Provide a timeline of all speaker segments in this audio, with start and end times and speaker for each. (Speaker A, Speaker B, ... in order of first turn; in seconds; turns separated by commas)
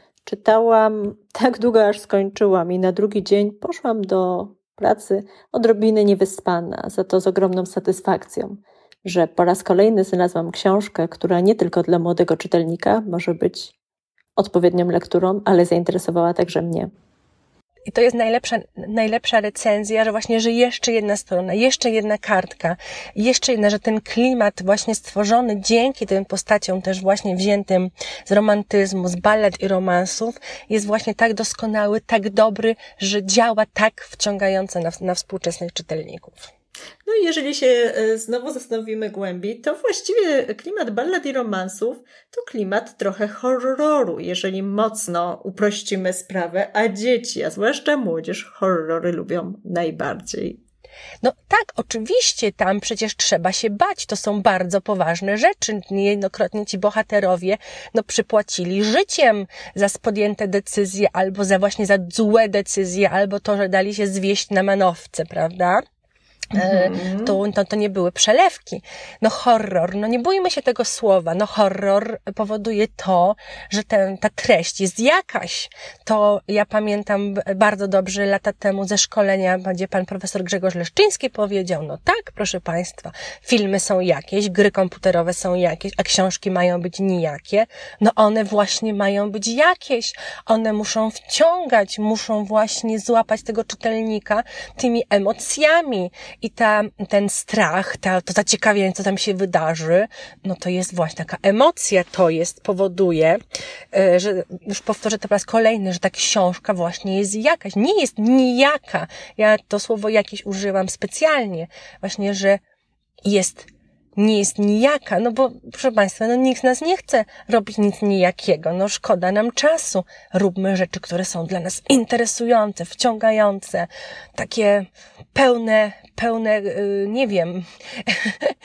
Speaker A: 0.2-13.8, Speaker A: 14.4-16.9, Speaker B: 17.9-36.5, Speaker A: 37.1-50.6, Speaker B: 51.2-65.8, Speaker A: 66.5-67.4, Speaker B: 66.5-103.4, Speaker B: 103.9-112.6, Speaker B: 113.2-128.5